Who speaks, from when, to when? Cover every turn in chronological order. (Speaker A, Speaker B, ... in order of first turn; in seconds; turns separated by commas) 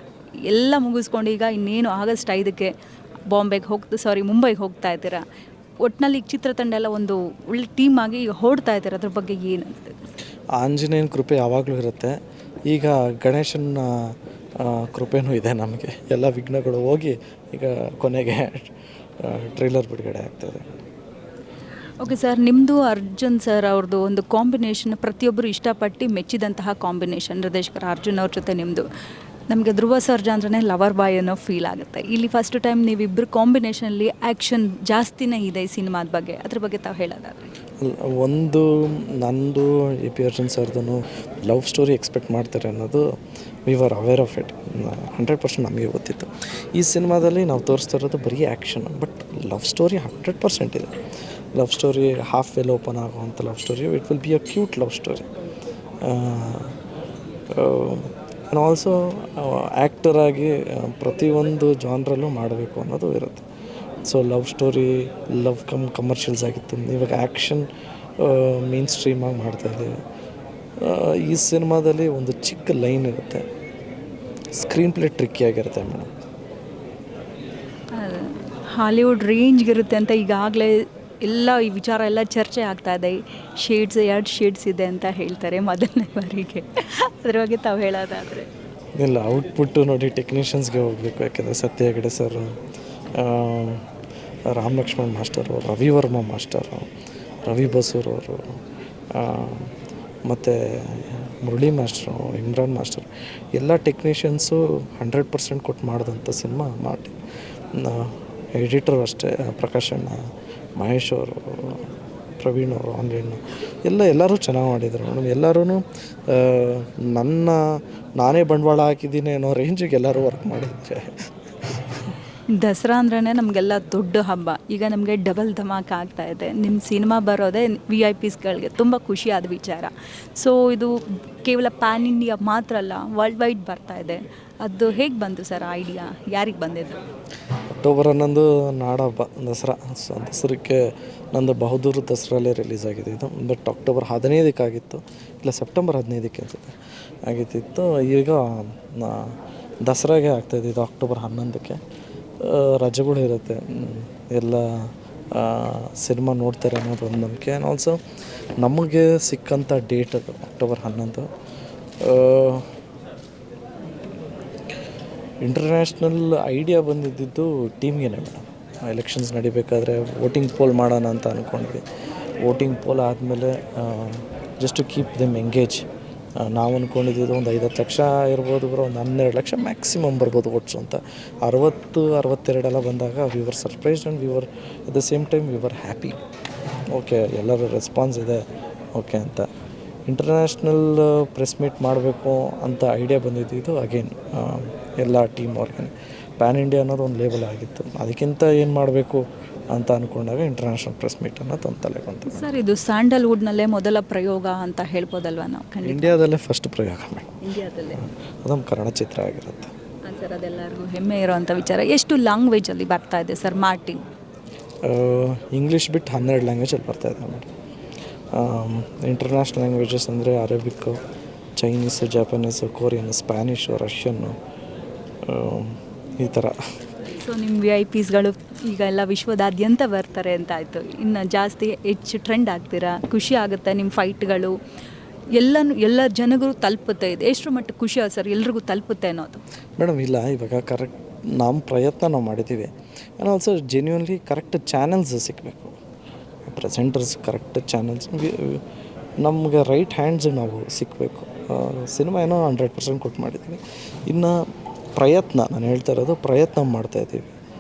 Speaker A: 0.5-2.7, Speaker A: 3.3-5.2, Speaker A: 5.8-10.0, Speaker B: 10.6-20.7, Speaker A: 22.0-28.9, Speaker A: 29.5-37.5, Speaker B: 37.8-43.0, Speaker B: 43.7-50.9, Speaker B: 51.5-55.3, Speaker B: 56.0-56.8, Speaker B: 57.5-63.5, Speaker B: 64.1-67.7, Speaker B: 68.2-70.0, Speaker B: 70.8-73.5, Speaker B: 74.6-76.1, Speaker A: 78.0-88.5, Speaker B: 89.0-92.6, Speaker B: 93.2-93.9, Speaker B: 94.5-96.9, Speaker B: 97.5-98.5, Speaker B: 99.1-99.7, Speaker B: 100.3-107.2, Speaker B: 107.7-111.9, Speaker B: 112.4-122.0, Speaker A: 122.5-137.0, Speaker B: 137.8-146.8, Speaker B: 147.3-151.8, Speaker B: 152.4-158.0, Speaker B: 158.6-161.3, Speaker B: 162.0-162.7, Speaker B: 165.4-171.8, Speaker B: 172.4-175.9, Speaker B: 176.4-186.2, Speaker B: 186.9-188.4, Speaker B: 189.0-189.5, Speaker B: 190.1-202.5, Speaker A: 202.3-206.2, Speaker B: 205.8-207.4, Speaker A: 207.4-208.0, Speaker B: 208.4-209.7, Speaker A: 210.1-214.0, Speaker B: 214.8-217.5, Speaker B: 218.3-221.0, Speaker B: 221.6-224.4, Speaker B: 225.2-226.6, Speaker A: 227.2-234.6, Speaker A: 235.3-239.4, Speaker B: 239.8-245.8, Speaker B: 246.5-248.6, Speaker B: 249.2-254.4, Speaker B: 255.0-257.3